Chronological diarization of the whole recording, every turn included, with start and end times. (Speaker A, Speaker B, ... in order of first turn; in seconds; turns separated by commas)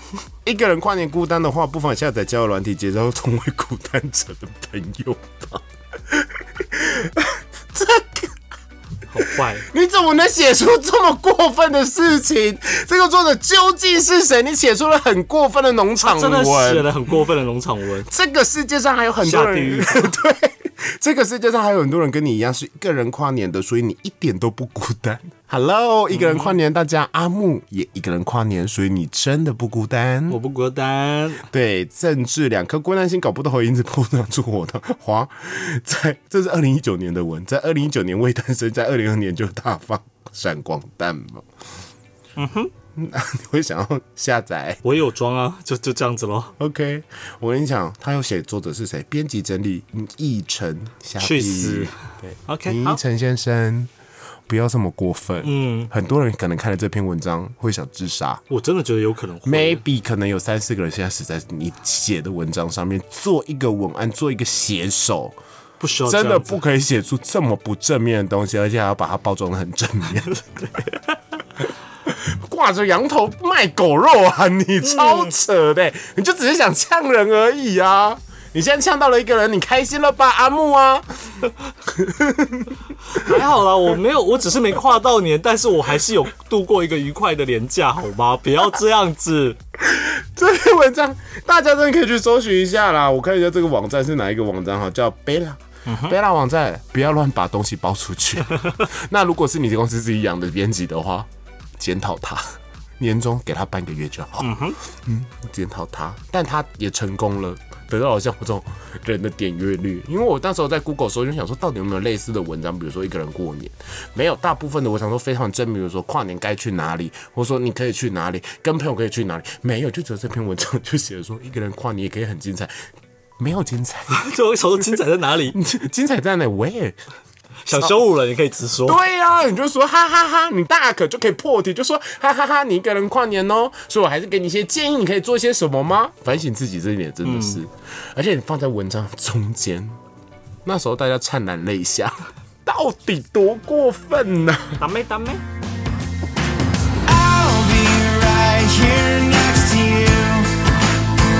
Speaker A: 0.4-8.3, Speaker B: 9.1-9.7, Speaker A: 9.6-16.9, Speaker B: 16.0-18.1, Speaker A: 18.1-30.4, Speaker B: 19.2-20.1, Speaker B: 26.1-26.5, Speaker B: 30.3-31.4, Speaker A: 31.5-41.4, Speaker B: 42.4-42.7, Speaker A: 42.9-44.8, Speaker B: 44.8-46.5, Speaker A: 46.6-53.9, Speaker B: 51.2-53.0, Speaker A: 54.5-58.4, Speaker B: 55.4-55.9, Speaker B: 58.5-59.8, Speaker A: 59.4-65.3, Speaker B: 65.8-66.6, Speaker A: 66.0-70.4, Speaker B: 70.6-71.1, Speaker A: 72.0-83.4, Speaker B: 74.8-75.3, Speaker B: 83.1-89.6, Speaker A: 89.8-122.8, Speaker B: 95.8-96.2, Speaker B: 104.4-104.8, Speaker A: 123.4-125.0, Speaker B: 124.1-125.6, Speaker A: 125.5-127.0, Speaker B: 127.7-129.0, Speaker A: 128.8-140.0, Speaker B: 137.2-137.6, Speaker A: 140.6-144.8, Speaker B: 144.8-145.4, Speaker C: 147.1-150.5